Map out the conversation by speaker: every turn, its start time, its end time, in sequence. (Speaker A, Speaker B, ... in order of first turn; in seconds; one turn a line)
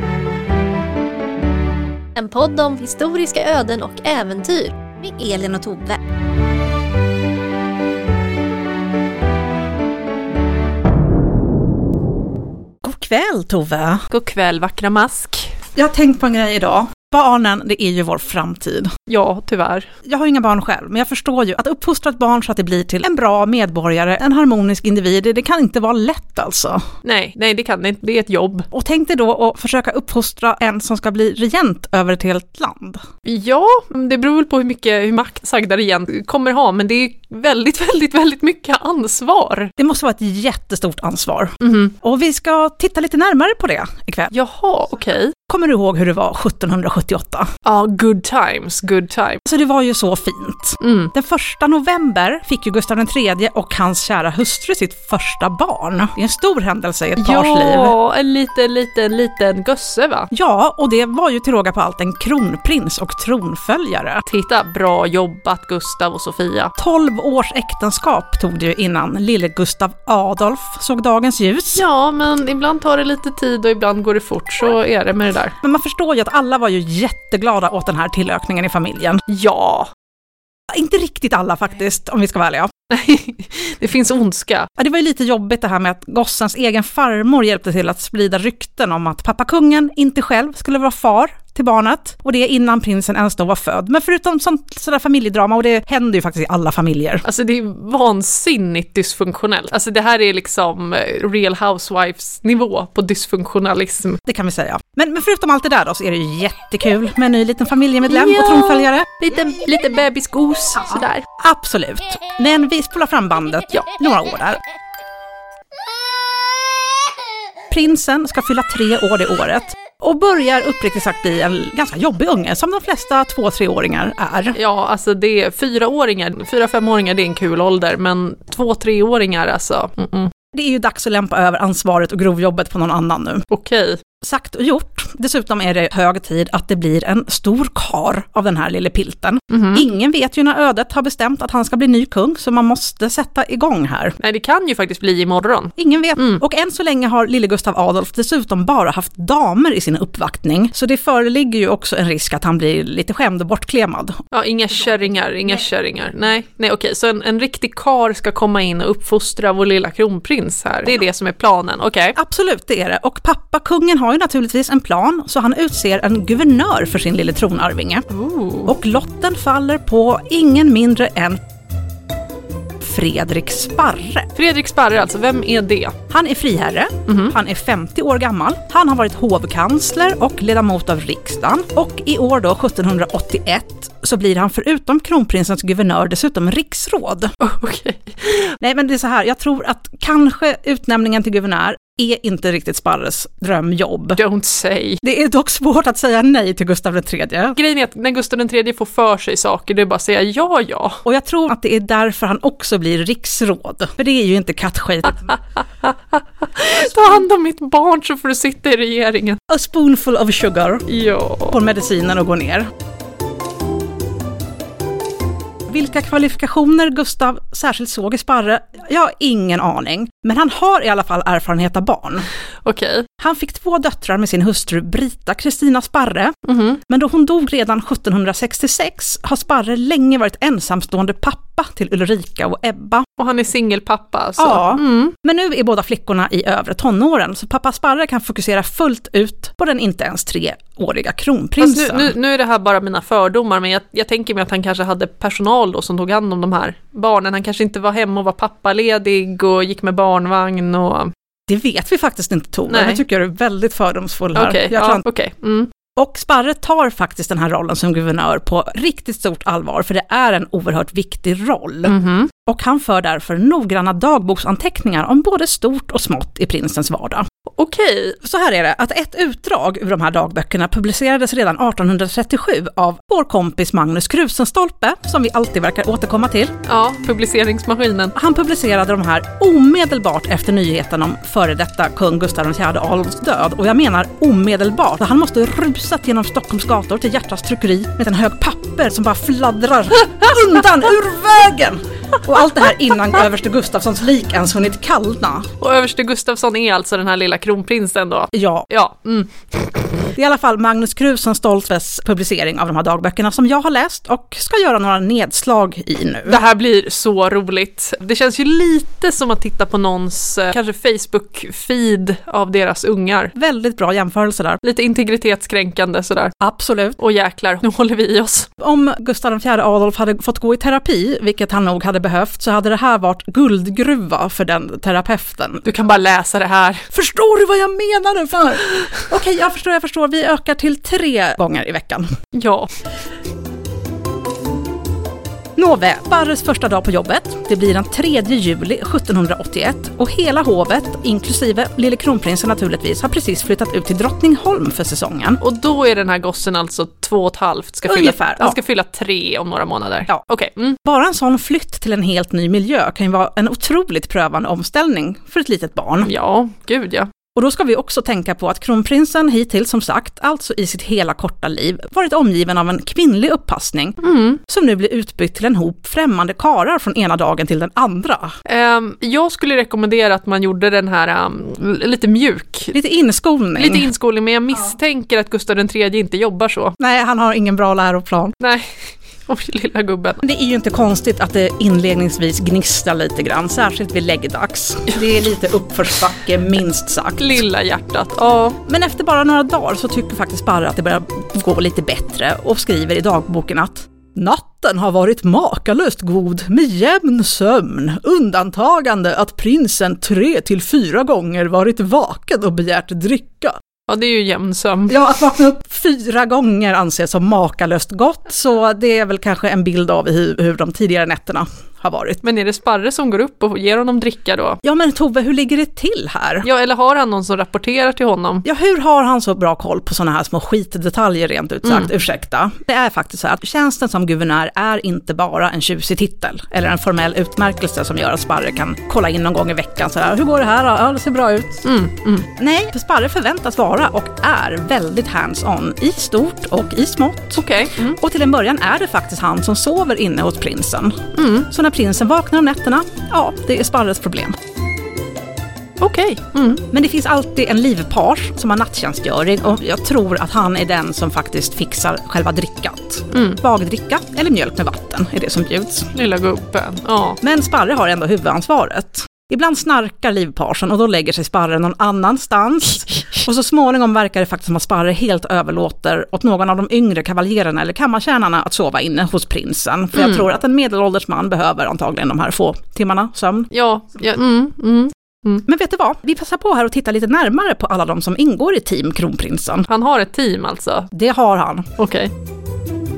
Speaker A: 2.2-4.8
Speaker B: 5.0-6.0
Speaker B: 12.8-14.1
Speaker C: 14.1-15.6
Speaker B: 15.8-18.9
Speaker C: 19.1-19.9
Speaker B: 20.1-26.9
Speaker C: 27.0-28.7
Speaker B: 28.7-33.0
Speaker C: 33.2-39.7
Speaker B: 39.8-44.3
Speaker C: 41.6-41.9
Speaker C: 44.3-45.4
Speaker B: 45.5-47.5
Speaker C: 47.6-49.4
Speaker B: 49.5-58.0
Speaker C: 50.8-51.1
Speaker C: 57.2-60.3
Speaker B: 60.3-64.2
Speaker C: 64.3-66.7
Speaker B: 66.8-71.8
Speaker C: 71.8-75.6
Speaker B: 75.6-79.2
Speaker C: 79.3-79.9
Speaker B: 80.7-82.7
Speaker C: 82.9-84.7
Speaker B: 84.8-97.2
Speaker C: 97.2-104.2
Speaker B: 104.3-109.2
Speaker C: 108.1-111.3
Speaker B: 111.4-114.6
Speaker B: 117.7-124.6
Speaker C: 124.5-130.3
Speaker B: 130.5-133.5
Speaker C: 133.5-134.0
Speaker B: 134.2-144.2
Speaker C: 139.5-139.8
Speaker C: 144.2-146.4
Speaker B: 145.8-154.2
Speaker C: 154.3-162.2
Speaker B: 162.2-168.1
Speaker C: 168.1-168.7
Speaker B: 168.7-171.4
Speaker B: 172.8-174.3
Speaker C: 174.3-176.0
Speaker B: 176.1-187.3
Speaker C: 177.1-177.3
Speaker C: 187.4-188.6
Speaker B: 188.6-194.2
Speaker C: 194.2-195.0
Speaker B: 195.0-197.6
Speaker C: 197.6-201.0
Speaker B: 201.1-205.3
Speaker C: 205.8-209.4
Speaker B: 209.5-210.9
Speaker C: 210.9-211.6
Speaker B: 211.5-212.7
Speaker B: 215.7-222.3
Speaker C: 222.6-223.1
Speaker B: 223.2-233.1
Speaker C: 226.5-226.8
Speaker C: 233.2-235.2
Speaker B: 234.4-242.1
Speaker C: 241.6-251.1
Speaker B: 251.5-255.0
Speaker C: 252.7-253.0
Speaker C: 254.3-255.7
Speaker B: 256.0-267.3
Speaker C: 261.9-262.3
Speaker C: 267.6-268.2
Speaker B: 268.2-276.6
Speaker C: 276.7-278.2
Speaker B: 278.1-295.5
Speaker C: 295.6-299.7
Speaker B: 298.3-298.7
Speaker B: 300.1-306.4
Speaker C: 306.3-313.3
Speaker B: 313.4-314.6
Speaker C: 314.6-316.4
Speaker B: 316.4-317.0
Speaker C: 317.0-318.5
Speaker B: 318.6-325.7
Speaker C: 325.6-326.9
Speaker B: 326.9-332.1
Speaker C: 332.3-332.7
Speaker B: 335.6-345.4
Speaker C: 345.4-350.8
Speaker B: 347.9-348.6
Speaker B: 350.8-356.1
Speaker C: 356.0-357.1
Speaker B: 357.4-368.4
Speaker C: 364.0-364.4
Speaker C: 368.5-372.8
Speaker B: 372.7-373.9
Speaker C: 373.6-376.8
Speaker B: 376.8-378.4
Speaker C: 378.4-380.2
Speaker B: 380.2-387.4
Speaker C: 387.2-388.6
Speaker B: 388.6-403.6
Speaker C: 403.9-405.0
Speaker B: 404.9-412.2
Speaker C: 412.2-414.6
Speaker B: 414.6-416.5
Speaker C: 416.4-418.4
Speaker B: 418.4-431.6
Speaker C: 431.6-432.3
Speaker B: 432.3-444.4
Speaker C: 437.4-438.0
Speaker C: 441.1-441.5
Speaker C: 445.8-446.6
Speaker B: 446.7-455.9
Speaker C: 453.1-453.4
Speaker C: 455.9-457.2
Speaker B: 457.2-473.5
Speaker C: 473.5-475.5
Speaker B: 475.5-479.7
Speaker C: 479.7-480.9
Speaker B: 480.9-481.7
Speaker C: 481.8-482.1